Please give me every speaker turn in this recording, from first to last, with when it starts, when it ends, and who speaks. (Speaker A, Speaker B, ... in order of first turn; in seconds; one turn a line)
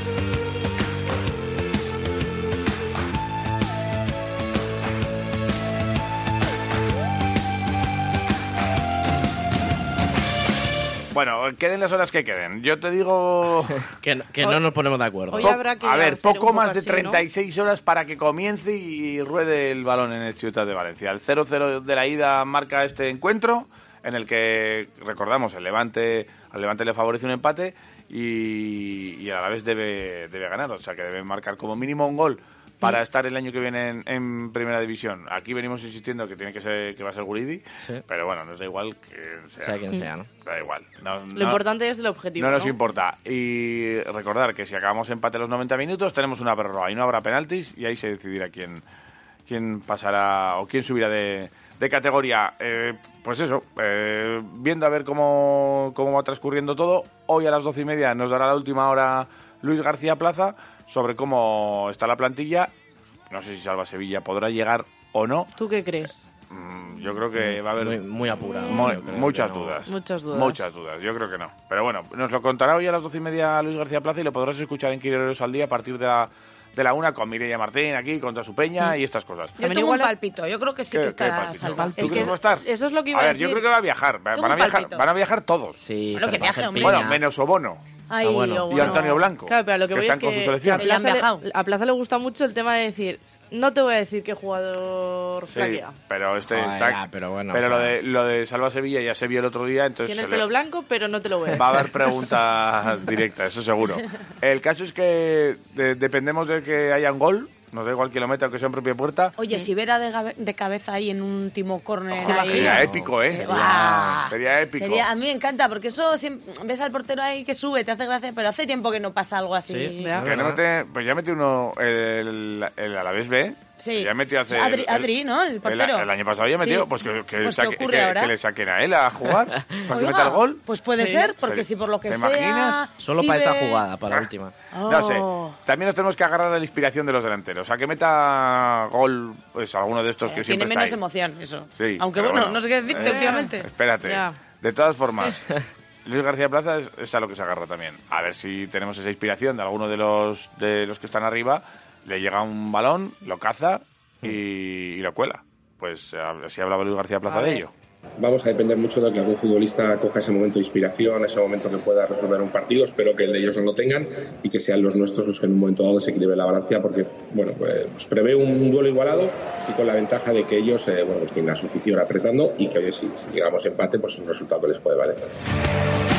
Speaker A: 11.1-13.8
Speaker B: 14.0-15.5
Speaker C: 15.3-17.2
Speaker A: 15.4-39.8
Speaker B: 39.6-40.3
Speaker A: 40.4-41.6
Speaker C: 41.4-42.8
Speaker A: 42.4-48.8
Speaker A: 49.5-62.7
Speaker A: 63.3-65.5
Speaker C: 65.6-66.2
Speaker A: 66.5-68.0
Speaker B: 67.3-69.8
Speaker A: 68.7-79.5
Speaker C: 69.9-70.6
Speaker D: 79.6-82.3
Speaker C: 79.6-80.1
Speaker A: 80.9-85.8
Speaker C: 81.9-83.6
Speaker D: 84.3-85.0
Speaker B: 85.8-87.2
Speaker D: 86.2-87.1
Speaker A: 86.8-87.8
Speaker D: 88.1-89.3
Speaker B: 88.2-88.9
Speaker A: 88.7-90.9
Speaker C: 89.5-95.9
Speaker D: 90.8-91.4
Speaker A: 95.5-97.0
Speaker B: 96.5-98.0
Speaker A: 97.5-100.5
Speaker C: 100.1-101.8
Speaker A: 101.5-109.3
Speaker D: 109.4-120.2
Speaker A: 112.1-115.1
Speaker C: 112.3-112.8
Speaker B: 112.4-114.2
Speaker B: 119.7-120.6
Speaker C: 120.0-120.3
Speaker A: 120.2-125.1
Speaker D: 123.8-126.9
Speaker A: 125.7-130.6
Speaker D: 127.4-128.3
Speaker B: 129.6-129.8
Speaker D: 129.9-133.8
Speaker C: 131.0-131.3
Speaker A: 131.3-132.9
Speaker B: 133.0-134.5
Speaker D: 134.7-135.6
Speaker A: 134.9-141.0
Speaker D: 140.2-143.7
Speaker A: 141.8-145.5
Speaker C: 143.0-144.4
Speaker A: 146.0-157.7
Speaker C: 157.3-157.6
Speaker E: 158.2-175.2